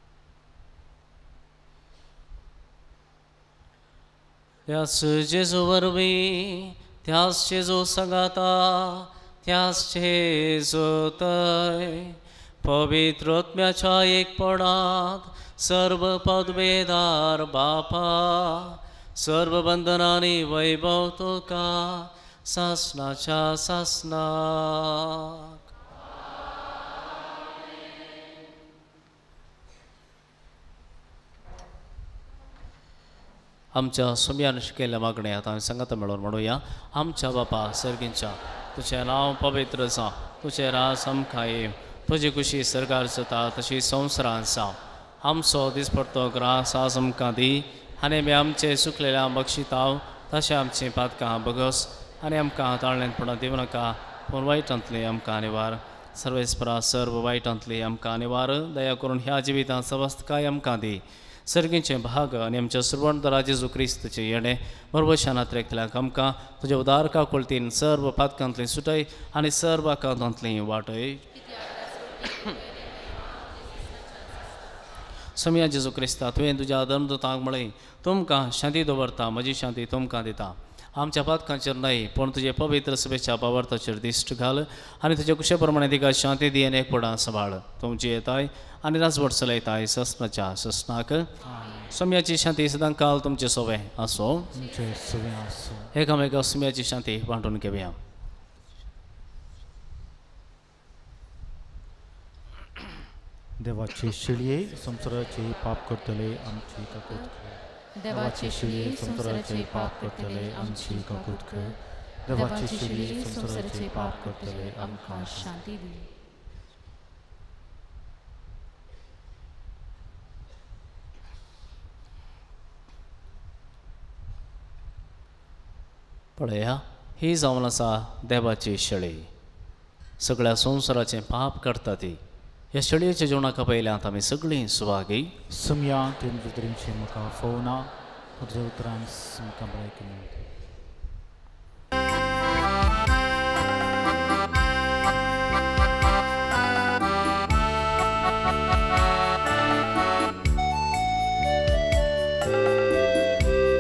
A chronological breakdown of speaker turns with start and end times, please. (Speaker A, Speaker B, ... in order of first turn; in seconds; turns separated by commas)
Speaker A: 4.7-25.4, Speaker A: 33.7-71.2, Speaker B: 71.4-74.5, Speaker A: 75.4-91.3, Speaker A: 91.8-94.5, Speaker C: 94.5-95.9, Speaker A: 95.9-98.0, Speaker C: 103.6-111.8, Speaker B: 108.0-116.1, Speaker C: 112.3-115.5, Speaker A: 126.4-129.3, Speaker A: 130.2-132.2, Speaker A: 132.7-135.3, Speaker C: 135.5-140.3